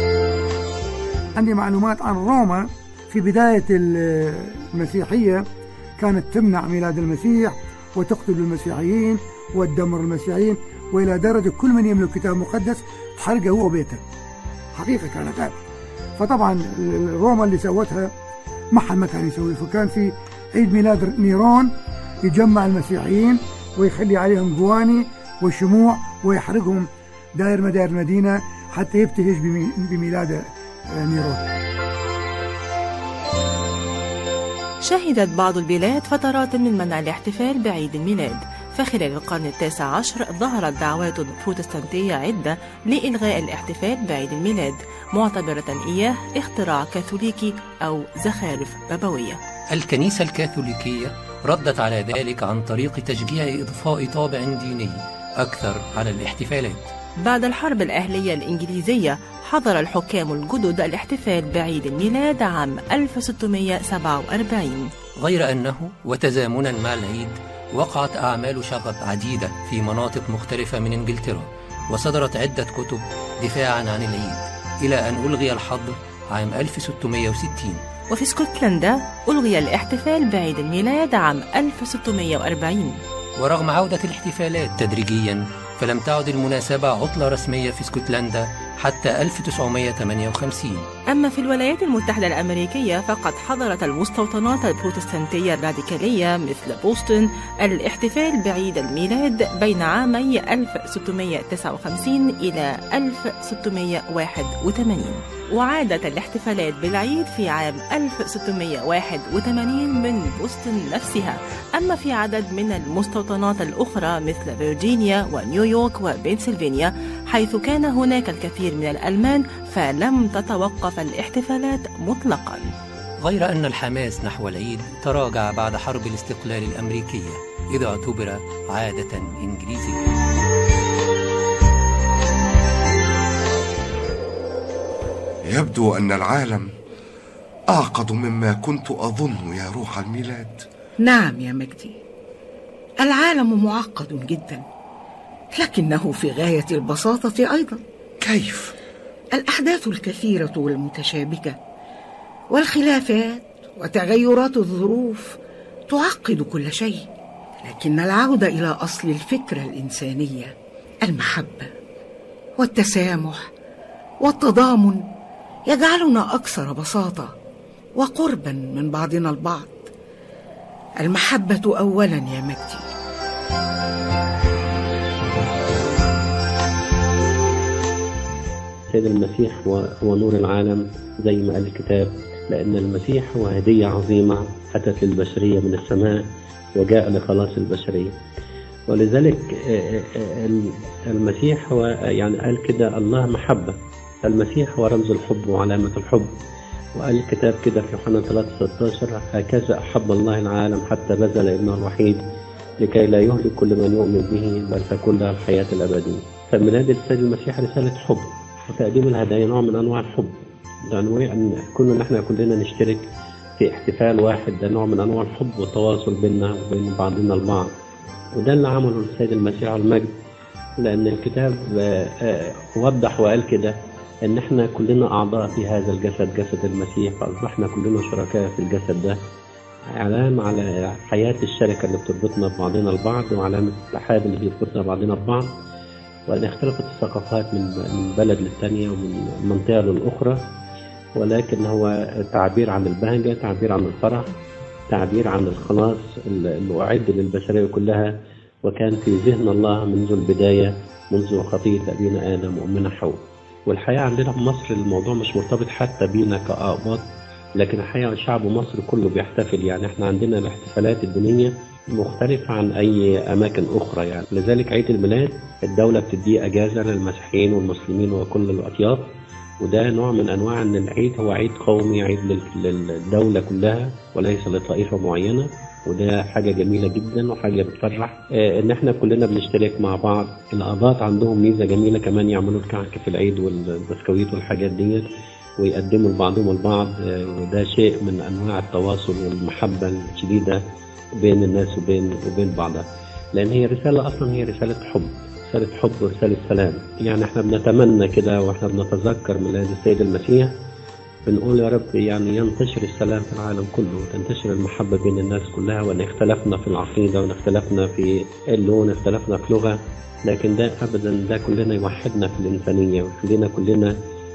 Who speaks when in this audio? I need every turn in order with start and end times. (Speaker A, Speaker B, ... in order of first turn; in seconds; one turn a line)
Speaker A: 1.4-5.4
Speaker A: 6.0-14.0
Speaker A: 14.8-15.5
Speaker A: 16.2-18.1
Speaker A: 18.7-21.7
Speaker A: 22.3-26.9
Speaker A: 27.4-30.4
Speaker A: 31.0-31.4
Speaker B: 39.3-39.8
Speaker B: 41.2-42.3
Speaker B: 43.0-44.5
Speaker B: 45.2-46.8
Speaker B: 47.9-49.4
Speaker C: 49.7-56.8
Speaker B: 58.8-64.5
Speaker C: 65.2-77.8
Speaker B: 78.1-82.9
Speaker C: 83.4-90.8
Speaker B: 91.2-97.1
Speaker B: 97.7-122.6
Speaker C: 123.2-130.0
Speaker D: 135.5-136.7
Speaker D: 137.7-140.6
Speaker E: 141.0-142.0
Speaker E: 143.0-144.6
Speaker E: 145.5-147.8
Speaker D: 148.2-148.7
Speaker E: 149.3-151.6
Speaker E: 152.5-155.3
Speaker E: 155.9-157.1
Speaker E: 157.6-160.5
Speaker E: 161.0-161.7
Speaker E: 162.6-163.5
Speaker E: 164.2-165.0
Speaker E: 165.7-167.3
Speaker E: 168.0-169.9
Speaker E: 171.0-172.8
Speaker F: 178.9-186.2
Speaker F: 186.8-188.1
Speaker F: 188.9-196.3
Speaker F: 196.9-202.2
Speaker F: 202.8-210.3
Speaker F: 210.9-213.1
Speaker F: 213.6-217.7
Speaker F: 218.3-220.1
Speaker F: 220.8-229.2
Speaker F: 229.9-235.5
Speaker F: 236.3-240.4
Speaker F: 241.2-244.3
Speaker F: 244.9-248.1
Speaker F: 248.7-257.0
Speaker F: 257.6-269.1
Speaker F: 269.6-285.0
Speaker F: 285.6-290.6
Speaker F: 291.2-300.5
Speaker F: 301.2-313.9